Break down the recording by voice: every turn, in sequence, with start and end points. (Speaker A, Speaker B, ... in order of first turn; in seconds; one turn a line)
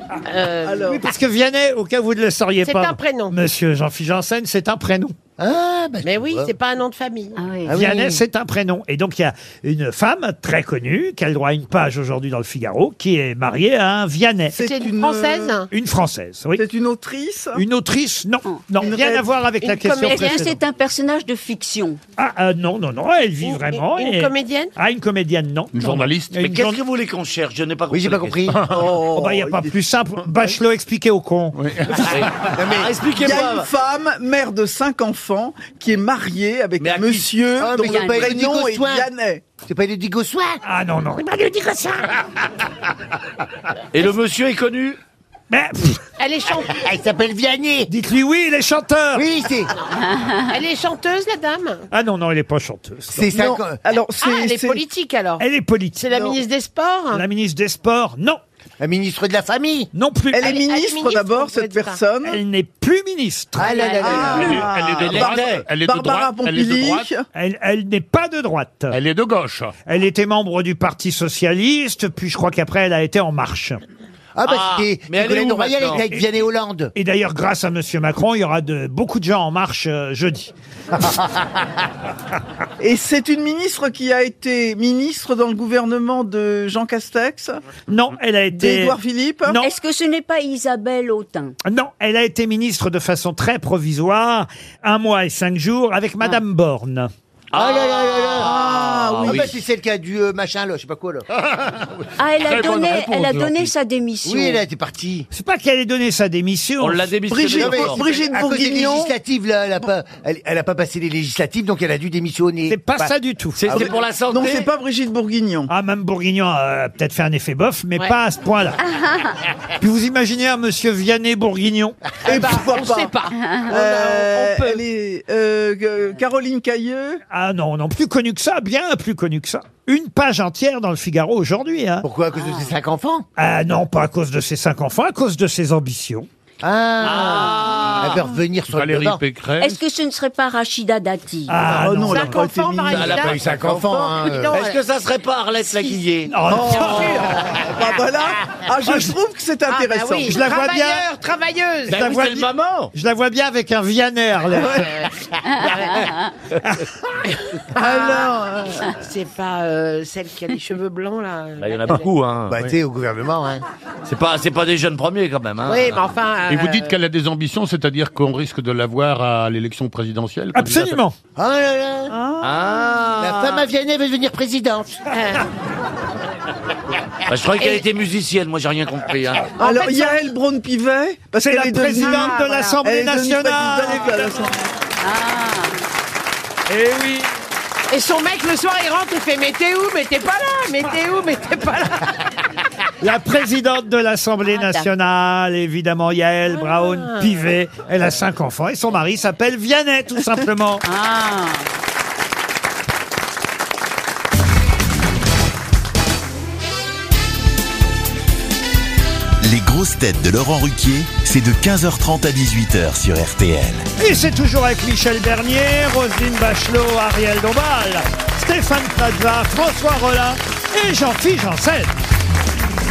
Speaker A: 0.3-1.0
Speaker B: 0.6-1.0
Speaker C: 0.9-5.2
Speaker A: 2.6-3.4
Speaker D: 5.4-6.5
Speaker A: 6.0-7.4
Speaker E: 7.4-8.0
Speaker D: 7.7-8.2
Speaker C: 7.7-14.6
Speaker B: 14.5-15.6
Speaker A: 14.6-15.7
Speaker C: 15.7-16.6
Speaker B: 16.6-17.6
Speaker C: 17.6-20.5
Speaker B: 18.8-19.2
Speaker A: 19.6-20.5
Speaker E: 19.9-22.0
Speaker C: 22.2-26.8
Speaker A: 23.4-24.7
Speaker F: 25.7-26.5
Speaker G: 26.4-28.5
Speaker D: 27.9-28.6
Speaker F: 28.5-28.9
Speaker B: 28.7-29.7
Speaker C: 29.1-31.6
Speaker F: 31.6-32.5
Speaker G: 32.0-33.7
Speaker D: 32.5-32.9
Speaker B: 33.1-39.4
Speaker G: 36.8-37.3
Speaker D: 37.6-39.1
Speaker E: 37.9-38.3
Speaker D: 39.6-40.6
Speaker C: 40.6-42.2
Speaker G: 43.9-45.0
Speaker C: 45.5-46.0
Speaker A: 46.2-46.8
Speaker D: 46.7-47.9
Speaker C: 47.9-49.3
Speaker D: 49.1-49.7
Speaker A: 49.7-51.9
Speaker C: 51.9-53.3
Speaker D: 53.1-53.8
Speaker B: 53.3-54.8
Speaker A: 54.2-55.4
Speaker C: 55.4-56.3
Speaker A: 56.0-57.2
Speaker C: 57.1-58.4
Speaker D: 58.8-59.9
Speaker C: 59.9-60.5
Speaker B: 60.3-62.4
Speaker A: 60.4-62.0
Speaker C: 62.2-64.3
Speaker D: 63.6-64.7
Speaker A: 63.7-64.5
Speaker B: 63.9-67.3
Speaker F: 64.3-67.1
Speaker G: 64.4-65.7
Speaker C: 67.3-69.0
Speaker F: 68.9-69.7
Speaker C: 69.9-73.8
Speaker D: 74.3-76.9
Speaker G: 74.5-76.1
Speaker C: 77.0-80.5
Speaker B: 82.8-87.6
Speaker C: 87.9-89.7
Speaker B: 88.5-89.6
Speaker E: 89.6-91.5
Speaker C: 91.7-97.1
Speaker D: 97.5-98.5
Speaker G: 97.5-99.6
Speaker B: 98.4-99.5
Speaker D: 99.2-101.2
Speaker F: 101.3-103.7
Speaker E: 102.2-104.6
Speaker D: 104.2-105.3
Speaker C: 105.3-107.1
Speaker G: 106.8-108.3
Speaker B: 107.3-109.1
Speaker D: 107.6-113.0
Speaker C: 112.7-113.9
Speaker G: 113.6-114.7
Speaker B: 113.7-115.7
Speaker C: 115.7-118.8
Speaker C: 119.8-122.1
Speaker B: 122.2-123.2
Speaker A: 122.2-124.8
Speaker B: 123.7-127.2
Speaker C: 127.3-132.1
Speaker D: 132.0-133.3
Speaker E: 132.3-132.7
Speaker C: 133.4-136.3
Speaker D: 136.6-139.2
Speaker G: 137.0-138.3
Speaker E: 137.1-137.9
Speaker F: 138.7-139.8
Speaker E: 139.6-141.6
Speaker C: 141.5-142.4
Speaker B: 141.7-143.2
Speaker A: 142.0-144.8
Speaker G: 142.9-146.4
Speaker D: 143.1-144.6
Speaker A: 145.6-146.0
Speaker C: 146.3-147.3
Speaker B: 146.5-150.4
Speaker A: 146.5-147.3
Speaker C: 148.8-149.2
Speaker A: 149.7-152.1
Speaker C: 150.2-151.1
Speaker C: 151.9-154.9
Speaker G: 151.9-152.9
Speaker A: 154.6-156.0
Speaker G: 155.6-156.0
Speaker A: 157.7-162.1
Speaker B: 157.8-158.8
Speaker G: 161.6-162.7
Speaker D: 162.5-163.6
Speaker G: 164.1-166.0
Speaker A: 165.7-167.0
Speaker F: 166.5-171.0
Speaker C: 170.5-171.2
Speaker D: 171.4-172.1
Speaker B: 172.1-172.6
Speaker G: 172.4-173.5
Speaker A: 173.0-173.7
Speaker D: 173.2-175.0
Speaker A: 175.1-175.5
Speaker G: 177.3-179.6
Speaker A: 179.6-180.2
Speaker B: 179.6-184.6
Speaker C: 181.4-184.5
Speaker A: 182.0-182.8
Speaker E: 185.0-185.8
Speaker C: 186.7-187.3
Speaker A: 187.9-192.3
Speaker C: 193.0-200.8
Speaker E: 194.4-194.9
Speaker A: 196.5-197.3
Speaker E: 200.8-201.7
Speaker H: 209.4-213.9
Speaker C: 214.0-221.9